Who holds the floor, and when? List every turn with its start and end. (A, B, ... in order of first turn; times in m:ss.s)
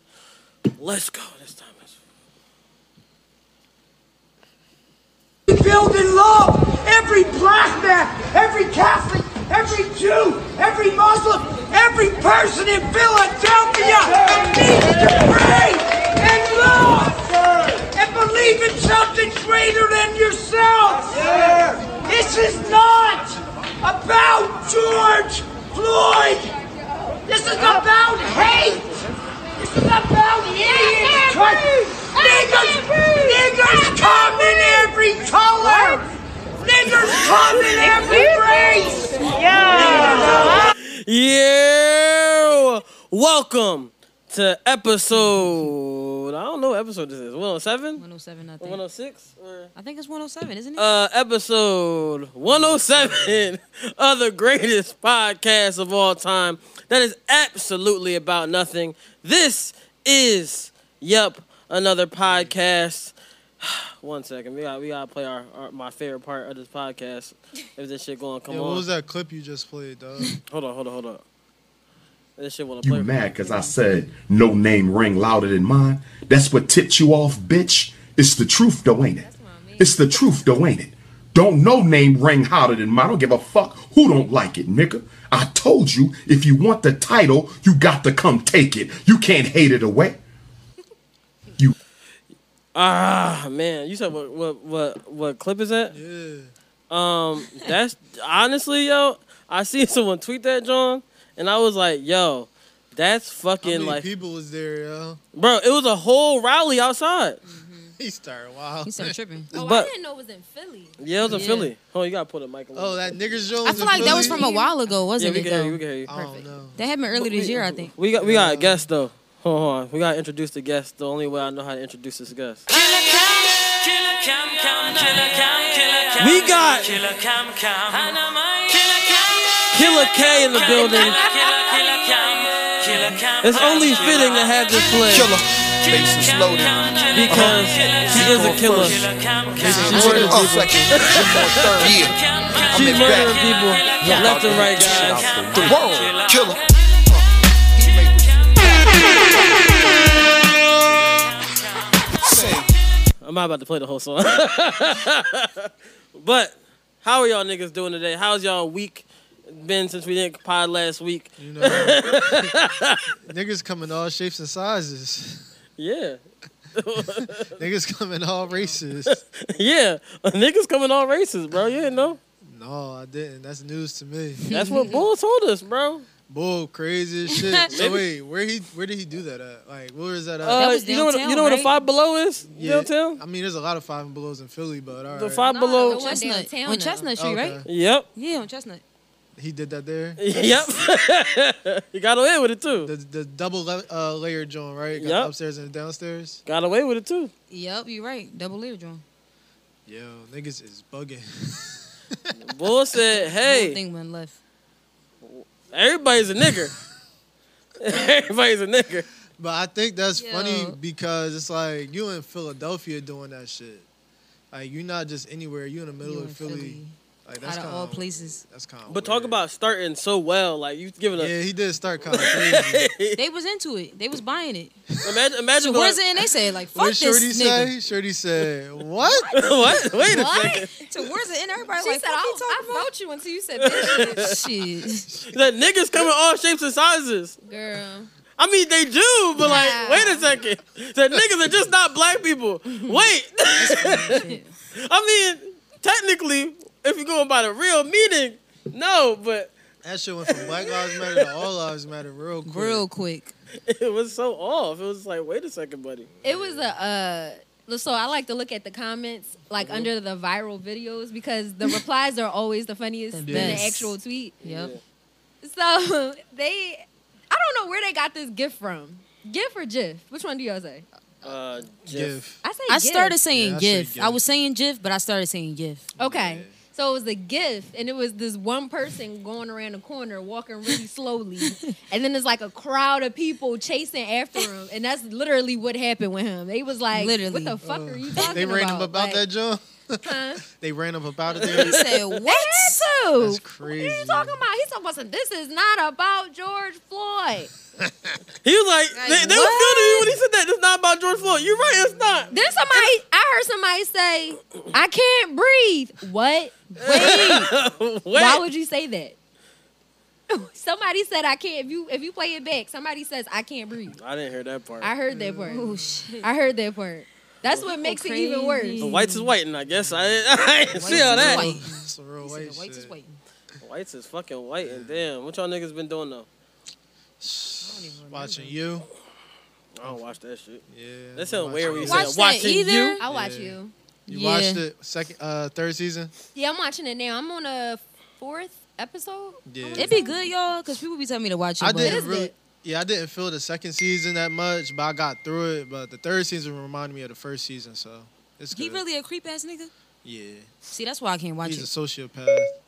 0:00.8-0:01.9 A
0:05.5-0:26.5 B
0:26.5-0:27.8 C
0:27.2-0:28.9 B
0:29.6-0:36.1 B
0:30.6-0:34.9 C
0:35.6-0:36.0 C
0:36.6-0:40.6 B
0:37.8-0:38.8 C
0:39.7-0:48.0 A
0:39.7-0:40.6 C
0:48.0-0:48.8 D
0:48.6-0:49.7 A
0:49.7-0:50.8 D
0:50.8-1:08.8 A
0:52.5-0:53.5 E
1:02.2-1:02.5 E
1:08.5-1:10.3 E
1:10.5-1:11.2 A
1:12.4-1:13.1 A
1:12.8-1:19.3 F
1:13.4-1:13.7 D
1:19.2-1:20.0 C
1:19.8-1:30.2 F
1:32.7-1:35.9 A
1:35.9-1:36.5 E
1:36.9-1:44.0 A
1:43.6-1:45.2 E
1:45.3-1:47.4 A
1:47.4-1:47.9 D
1:48.0-1:49.2 E
1:48.8-1:49.5 D
1:49.5-1:51.0 C
1:49.5-1:49.9 A
1:51.0-1:53.3 A
1:51.2-1:51.7 D
1:52.7-1:54.4 E
1:53.6-1:57.9 D
1:54.0-1:54.7 C
1:54.0-1:54.3 A
1:55.2-1:56.1 A
1:56.1-1:56.8 E
1:57.1-2:02.6 A
1:58.2-1:58.8 E
2:04.8-2:05.5 G
2:06.2-2:07.0 A
2:09.7-2:11.2 A
2:10.7-2:11.8 C
2:13.4-2:15.3 A
2:14.9-2:30.0 G
2:17.1-2:21.9 A
2:19.6-2:20.5 E
2:22.4-2:23.0 D
2:22.7-2:25.7 A
2:32.2-2:32.7 G
2:33.2-2:43.1 A
2:41.4-2:42.5 E
2:43.2-2:45.4 E
2:45.8-2:46.2 A
2:46.8-2:47.5 A
2:47.5-2:49.2 E
2:49.0-2:52.2 A
2:52.4-2:54.4 E
2:54.4-2:55.0 D
2:54.5-2:56.1 A
2:56.3-3:00.6 E
2:57.7-2:58.0 A
3:00.4-3:03.2 A
3:00.6-3:01.8 D
3:02.5-3:05.4 E
3:05.1-3:06.2 A
3:05.5-3:07.1 C
3:05.9-3:07.6 D
3:07.2-3:07.6 E
3:07.7-3:08.1 A
3:08.2-3:08.8 D
3:09.4-3:10.2 E
3:10.2-3:12.9 A
3:12.8-3:16.4 E
3:15.0-3:15.3 A
3:16.5-3:17.3 A
3:17.5-3:19.0 D
3:19.8-3:22.2 E
3:22.4-3:23.8 A
3:23.3-3:24.4 D
3:25.2-3:26.7 A
3:27.8-3:29.1 A
3:29.4-3:33.8 E
3:30.1-3:30.8 D
3:34.5-3:39.4 E
3:36.0-3:38.4 D
3:38.9-3:41.3 A
3:41.2-3:42.9 E
3:42.0-3:43.2 A
3:43.2-3:44.8 D
3:45.0-3:46.0 A
3:45.6-3:47.7 D
3:46.7-3:49.3 E
3:49.3-3:50.7 A
3:50.0-3:50.7 C
3:50.8-3:52.9 D
3:51.8-3:54.2 C
3:53.6-3:54.4 A
3:54.1-3:55.1 D
3:55.3-3:57.4 A
3:57.4-3:58.1 C
3:58.4-4:09.5 A
3:59.4-4:00.3 C
3:59.5-4:00.0 D
4:03.6-4:04.5 D
4:09.8-4:12.8 E
4:10.3-4:11.5 A
4:12.4-4:13.3 D
4:13.7-4:16.1 A
4:16.2-4:16.7 E
4:16.2-4:24.4 C
4:23.1-4:24.7 D
4:23.2-4:23.6 E
4:24.4-4:24.8 A
4:25.4-4:30.9 C
4:31.2-4:32.2 A
4:31.9-4:32.4 E
4:32.4-4:33.2 C
4:32.7-4:35.9 D
4:33.2-4:34.2 E
4:36.0-4:36.6 E
4:36.0-4:49.2 C
4:46.9-4:47.6 D
4:47.6-4:51.8 E
4:50.0-4:50.4 C
4:51.4-4:52.1 A
4:51.4-4:52.9 D
4:52.3-4:57.5 C
4:53.2-4:54.4 E
4:57.8-4:58.2 E
4:58.4-5:02.3 A
4:58.9-5:00.1 D
5:02.3-5:06.5 C
5:06.7-5:07.5 D
5:06.8-5:08.4 A
5:08.1-5:09.2 C
5:10.3-5:14.0 C
5:14.0-5:14.9 A
5:14.8-5:15.7 C
5:15.1-5:15.6 E
5:15.5-5:16.3 D
5:16.2-5:18.9 C
5:17.6-5:19.3 D
5:18.8-5:21.5 A
5:19.6-5:22.9 E
5:20.7-5:23.2 D
5:23.6-5:26.3 A
5:24.6-5:25.0 E
5:27.2-5:28.8 E
5:27.6-5:28.6 D
5:29.8-5:30.6 A
5:30.7-5:32.1 E
5:31.1-5:33.0 A
5:31.6-5:33.0 D
5:33.0-5:33.7 C
5:33.0-5:33.6 E
5:34.1-5:34.6 D
5:34.1-5:36.1 E
5:36.3-5:40.1 C
5:39.5-5:40.1 E
5:39.8-5:42.1 D
5:41.6-5:48.8 E
5:41.8-5:42.3 C
5:48.5-5:49.7 D
5:50.0-5:50.5 E
5:50.7-5:51.7 D
5:51.4-5:52.5 E